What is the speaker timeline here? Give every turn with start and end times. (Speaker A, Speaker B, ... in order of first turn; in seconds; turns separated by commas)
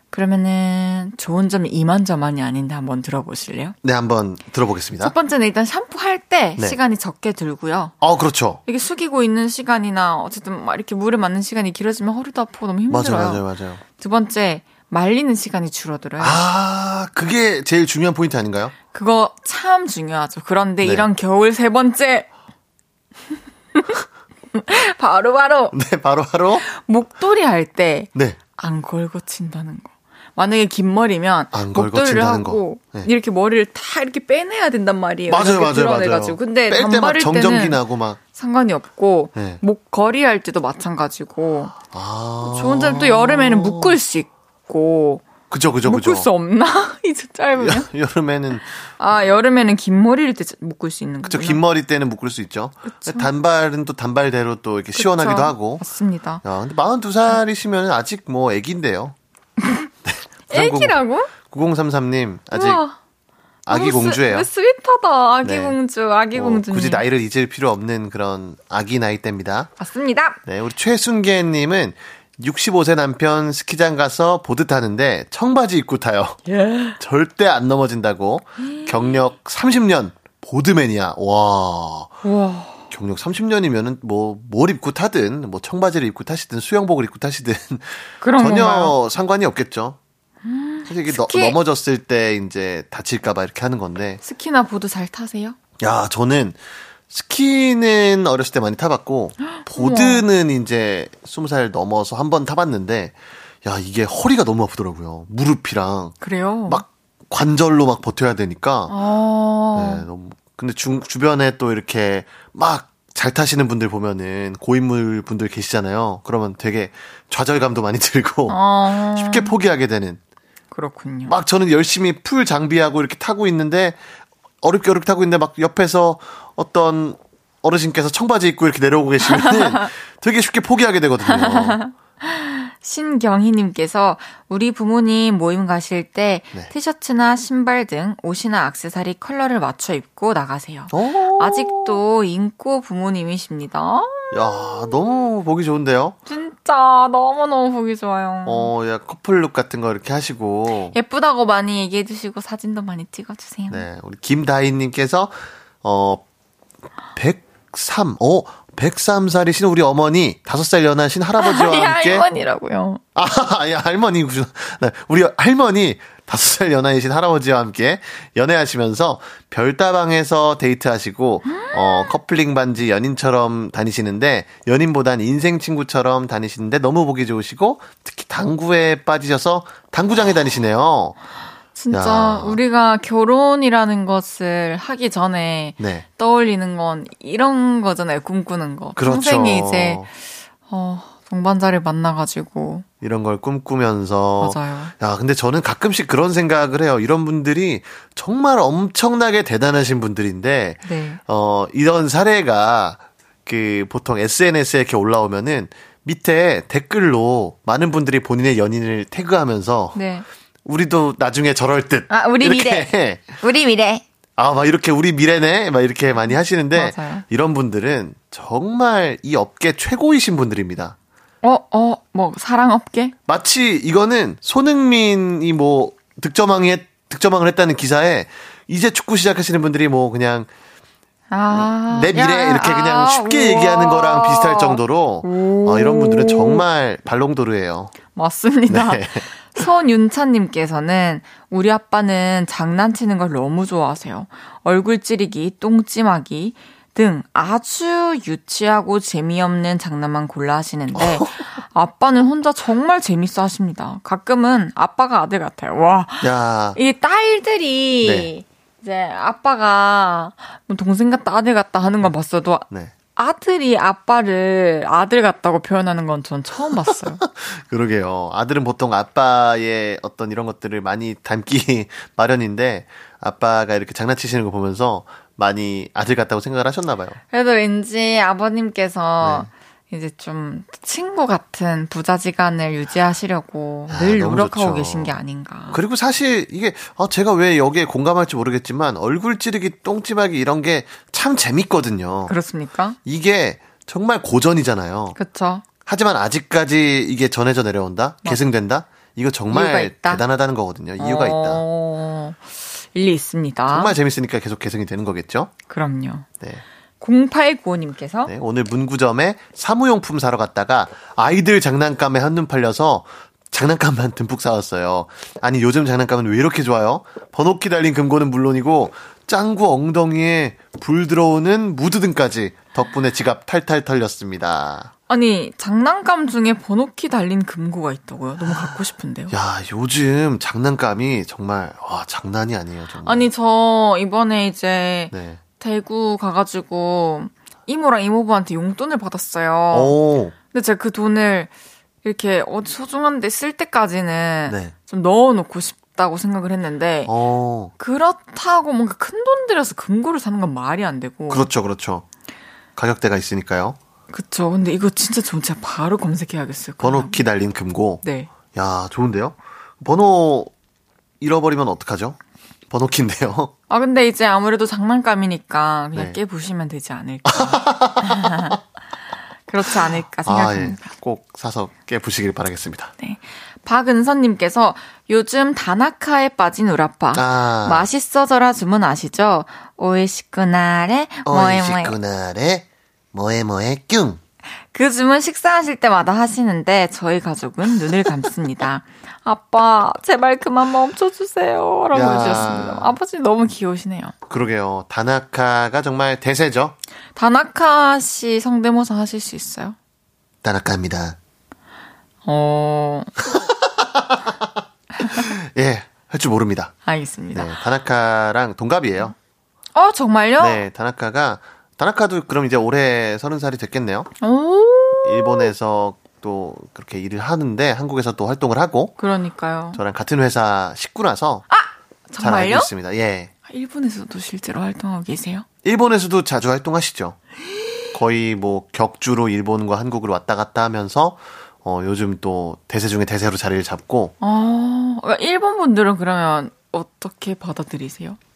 Speaker A: 0.1-3.8, Speaker B: 3.8-5.1, Speaker A: 5.0-8.0, Speaker B: 8.0-8.6, Speaker A: 8.7-13.4, Speaker B: 12.9-13.8, Speaker A: 14.0-16.4, Speaker B: 16.2-18.8, Speaker A: 18.9-22.3, Speaker B: 20.8-21.1, Speaker A: 24.5-25.7, Speaker B: 25.7-26.6, Speaker A: 26.6-37.8, Speaker B: 31.5-33.1, Speaker B: 35.3-38.2, Speaker A: 38.4-41.7, Speaker B: 39.4-39.6, Speaker B: 41.8-44.0, Speaker A: 42.4-45.2, Speaker B: 45.5-46.3, Speaker A: 45.9-47.9, Speaker B: 47.6-48.7, Speaker A: 48.8-51.6, Speaker B: 51.3-55.9, Speaker A: 52.9-53.3, Speaker A: 55.0-56.4, Speaker B: 56.4-59.1, Speaker B: 60.0-62.8, Speaker A: 60.5-61.3, Speaker A: 62.5-63.0, Speaker B: 63.7-64.5, Speaker A: 63.7-67.0, Speaker B: 65.4-65.8, Speaker B: 66.3-69.7, Speaker A: 69.8-70.4, Speaker B: 70.5-76.4, Speaker A: 76.5-77.0, Speaker B: 77.0-82.2, Speaker A: 78.6-79.2, Speaker A: 82.2-82.9, Speaker B: 82.9-90.0, Speaker A: 88.2-88.9, Speaker A: 90.4-91.5, Speaker B: 90.9-94.2, Speaker A: 94.2-95.6, Speaker B: 95.8-96.6, Speaker B: 97.1-108.9, Speaker A: 99.6-100.2, Speaker A: 106.2-106.8, Speaker A: 108.9-110.0, Speaker B: 109.8-120.2, Speaker A: 118.5-119.5, Speaker A: 120.7-121.3, Speaker B: 121.3-124.0, Speaker B: 124.6-131.8, Speaker A: 129.4-129.8, Speaker A: 131.3-144.9, Speaker B: 140.9-142.0, Speaker B: 144.3-146.2, Speaker A: 146.3-148.7, Speaker B: 148.5-151.0, Speaker A: 150.9-153.9, Speaker B: 153.7-156.2, Speaker B: 157.2-162.3, Speaker A: 161.4-163.0, Speaker B: 163.2-181.2, Speaker A: 171.5-172.1, Speaker A: 181.8-190.1, Speaker B: 181.9-182.6, Speaker B: 185.8-186.1, Speaker B: 189.0-190.1, Speaker A: 190.7-192.8, Speaker B: 193.0-210.0, Speaker A: 194.4-194.9, Speaker A: 200.8-201.2, Speaker A: 209.9-210.3, Speaker B: 210.7-213.4, Speaker A: 212.1-214.0, Speaker B: 214.4-221.0, Speaker A: 216.7-217.2, Speaker A: 221.4-223.1, Speaker B: 223.3-230.5, Speaker A: 231.3-236.6, Speaker B: 231.5-237.9, Speaker A: 238.2-267.2, Speaker B: 238.7-239.3, Speaker B: 250.9-251.3, Speaker B: 256.2-256.8, Speaker B: 258.0-258.3, Speaker B: 267.1-277.2, Speaker A: 277.3-285.8, Speaker B: 279.2-279.5, Speaker B: 283.9-285.2, Speaker B: 285.7-292.4, Speaker A: 292.3-293.0, Speaker B: 293.1-295.2, Speaker A: 295.2-295.6, Speaker B: 295.9-301.6, Speaker A: 299.5-300.2, Speaker A: 301.0-303.9, Speaker B: 303.7-305.5, Speaker A: 305.7-306.3, Speaker A: 307.0-308.3, Speaker B: 308.3-324.9, Speaker A: 325.1-329.3, Speaker B: 328.5-328.7, Speaker B: 329.3-333.3, Speaker A: 333.1-339.9, Speaker B: 335.1-335.4, Speaker B: 339.7-340.3, Speaker A: 340.5-341.5, Speaker A: 342.0-347.1, Speaker B: 344.5-344.7, Speaker B: 347.1-347.7, Speaker A: 347.8-351.5, Speaker B: 351.3-352.1, Speaker B: 352.8-353.8, Speaker A: 354.1-357.2, Speaker B: 356.8-360.5, Speaker A: 358.0-358.3, Speaker B: 361.2-362.2, Speaker B: 362.7-363.5, Speaker A: 363.7-368.6, Speaker B: 367.3-368.6, Speaker A: 369.5-370.8, Speaker B: 370.2-372.9, Speaker A: 373.0-381.9, Speaker B: 377.1-377.9, Speaker B: 381.3-384.2, Speaker A: 384.7-394.1, Speaker B: 391.9-392.9, Speaker B: 394.3-396.8, Speaker A: 397.2-399.8, Speaker B: 400.4-401.2, Speaker A: 402.2-403.1, Speaker B: 403.2-404.4, Speaker B: 405.0-406.8, Speaker A: 406.9-407.5, Speaker B: 407.3-409.1, Speaker A: 409.8-410.6, Speaker B: 410.4-414.1, Speaker A: 414.2-415.5, Speaker B: 415.0-419.0, Speaker A: 419.0-419.8, Speaker B: 419.8-421.5, Speaker A: 421.5-422.7, Speaker B: 422.2-423.3, Speaker A: 423.5-425.5, Speaker B: 425.6-427.2, Speaker B: 427.9-434.1, Speaker A: 434.2-438.2